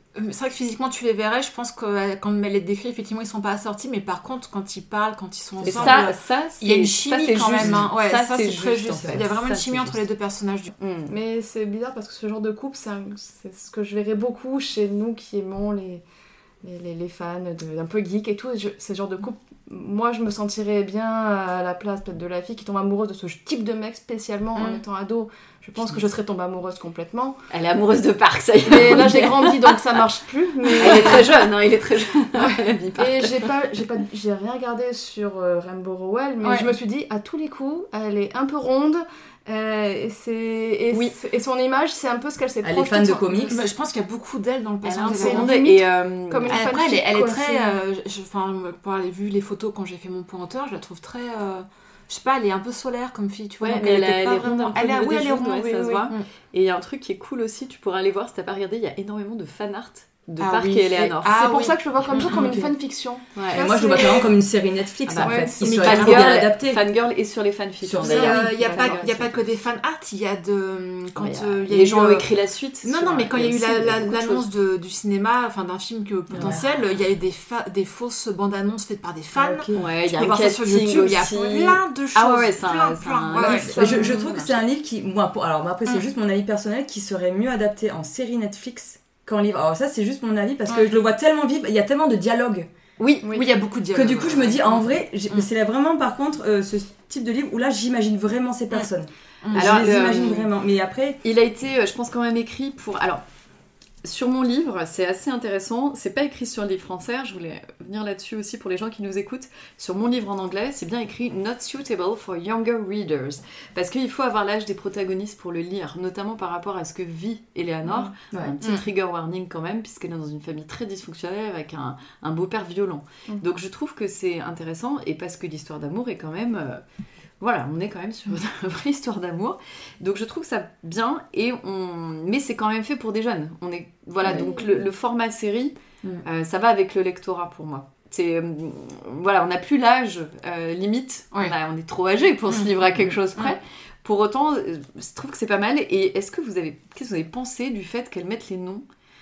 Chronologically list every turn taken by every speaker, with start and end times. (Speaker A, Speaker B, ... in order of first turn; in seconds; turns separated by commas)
Speaker A: 0.1-10.7, Speaker B: 5.6-10.1, Speaker C: 5.6-6.0, Speaker C: 7.6-7.9, Speaker B: 10.8-11.1, Speaker D: 11.1-16.0, Speaker D: 16.6-27.4, Speaker B: 27.5-30.0, Speaker D: 28.6-31.5, Speaker B: 30.8-33.5, Speaker D: 32.4-43.6, Speaker A: 36.4-36.7, Speaker C: 42.6-43.6, Speaker A: 43.5-45.5, Speaker B: 44.8-46.6, Speaker D: 45.1-47.8, Speaker A: 46.5-56.3, Speaker B: 53.6-61.6, Speaker A: 60.4-62.5, Speaker D: 61.3-64.3, Speaker C: 62.4-62.7, Speaker B: 63.4-63.6, Speaker C: 63.5-66.8, Speaker B: 65.1-69.3, Speaker A: 65.2-66.4, Speaker C: 67.8-68.4, Speaker A: 68.0-72.3, Speaker D: 68.2-69.0, Speaker B: 71.2-74.5, Speaker A: 72.8-84.3, Speaker C: 76.3-76.7, Speaker B: 76.3-76.6, Speaker C: 79.3-79.8, Speaker B: 79.7-84.6, Speaker D: 83.4-84.2, Speaker C: 83.4-92.7, Speaker B: 93.0-93.4, Speaker D: 93.2-93.5, Speaker A: 93.3-95.5, Speaker C: 93.9-101.2, Speaker A: 99.4-99.9, Speaker B: 99.5-100.5, Speaker B: 101.2-103.2, Speaker B: 104.0-126.8, Speaker D: 117.9-118.1, Speaker B: 127.4-148.8, Speaker D: 134.2-134.9